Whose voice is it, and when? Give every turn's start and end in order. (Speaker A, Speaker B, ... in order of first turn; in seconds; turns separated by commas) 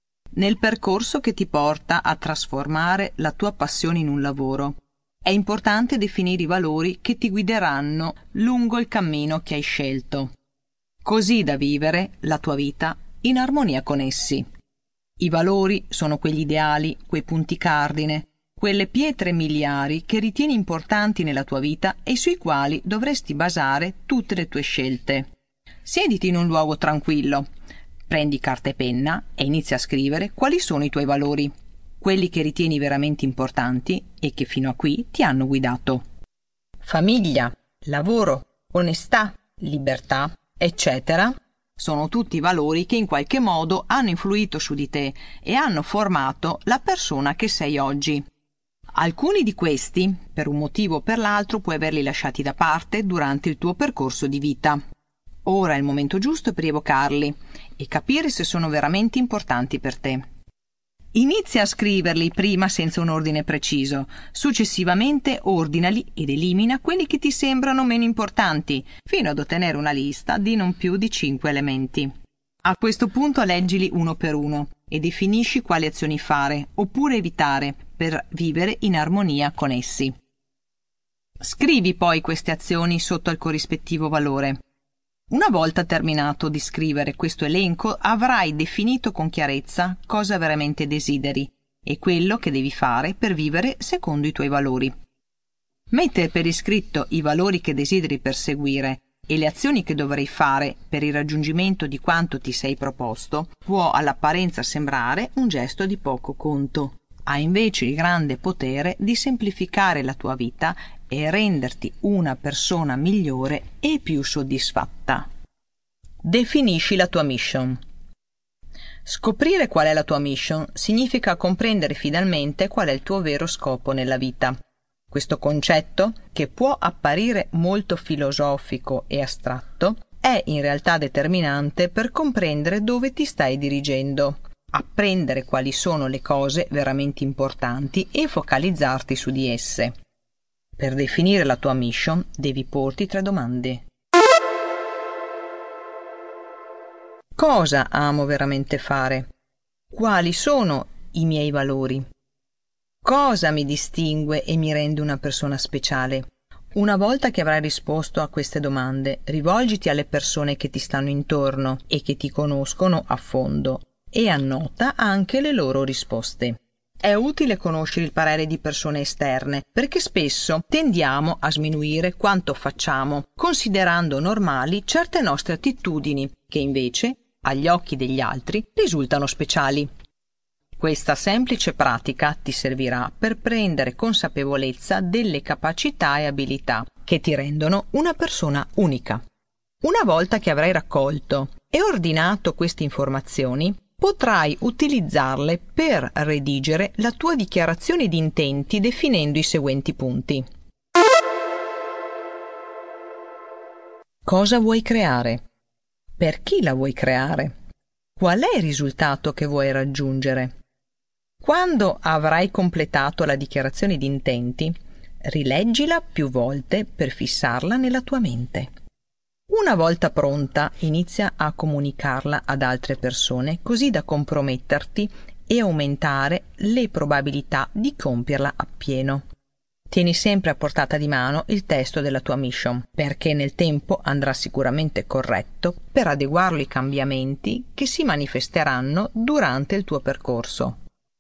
Speaker A: 0.3-10.3, Speaker A: 11.0-14.4, Speaker A: 15.2-25.3, Speaker A: 25.8-27.5, Speaker A: 28.1-36.0, Speaker A: 36.8-48.2, Speaker A: 48.9-54.8, Speaker A: 55.5-60.2, Speaker A: 61.1-72.1, Speaker A: 72.6-80.1, Speaker A: 81.4-84.6, Speaker A: 85.3-94.9, Speaker A: 95.9-115.3, Speaker A: 116.2-117.8, Speaker A: 119.0-124.6, Speaker A: 125.1-139.9, Speaker A: 140.8-143.8, Speaker A: 147.4-149.3, Speaker A: 149.9-152.0, Speaker A: 153.0-179.9, Speaker A: 180.8-189.2, Speaker A: 189.8-200.5, Speaker A: 204.2-205.4, Speaker A: 206.2-207.5, Speaker A: 208.2-210.5, Speaker A: 211.4-218.7, Speaker A: 219.5-229.2, Speaker A: 229.9-240.8